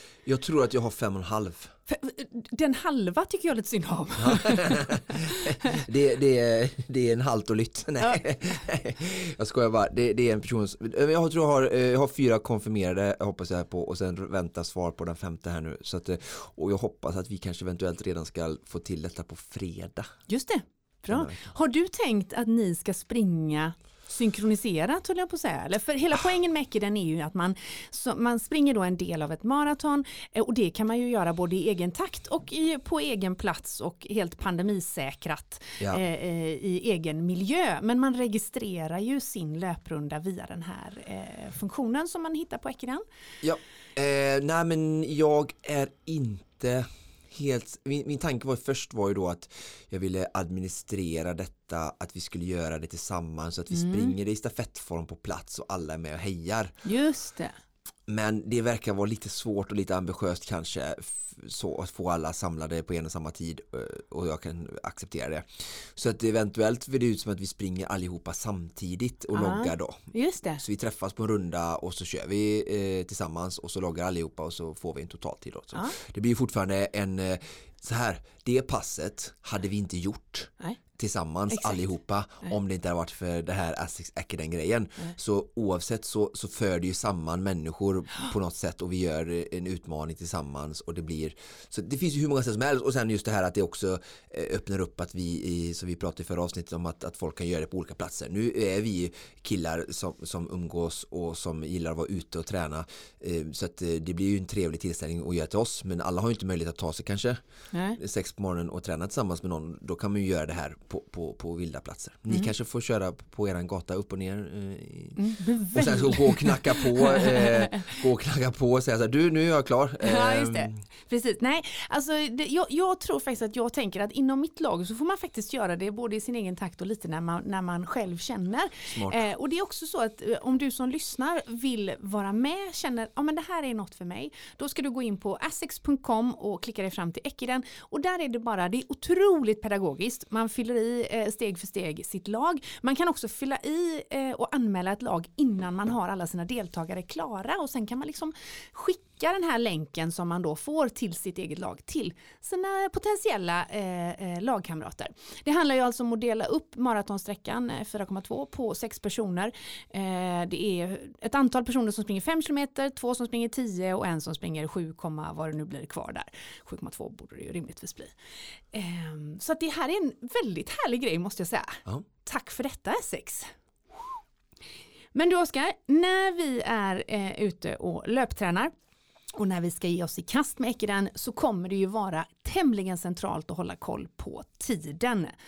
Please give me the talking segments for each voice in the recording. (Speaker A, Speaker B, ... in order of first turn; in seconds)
Speaker A: 0.2-1.7, 4.2-20.1, 21.1-21.5, 43.4-56.7, 58.1-107.4, 107.9-120.8, 128.9-129.3
Speaker B: 1.9-4.9, 20.3-43.0, 53.7-54.1, 56.8-57.5, 69.3-70.6, 81.5-81.9, 107.7-108.0, 115.2-117.6, 120.0-168.2, 168.7-173.5, 175.1-178.7, 179.3-185.3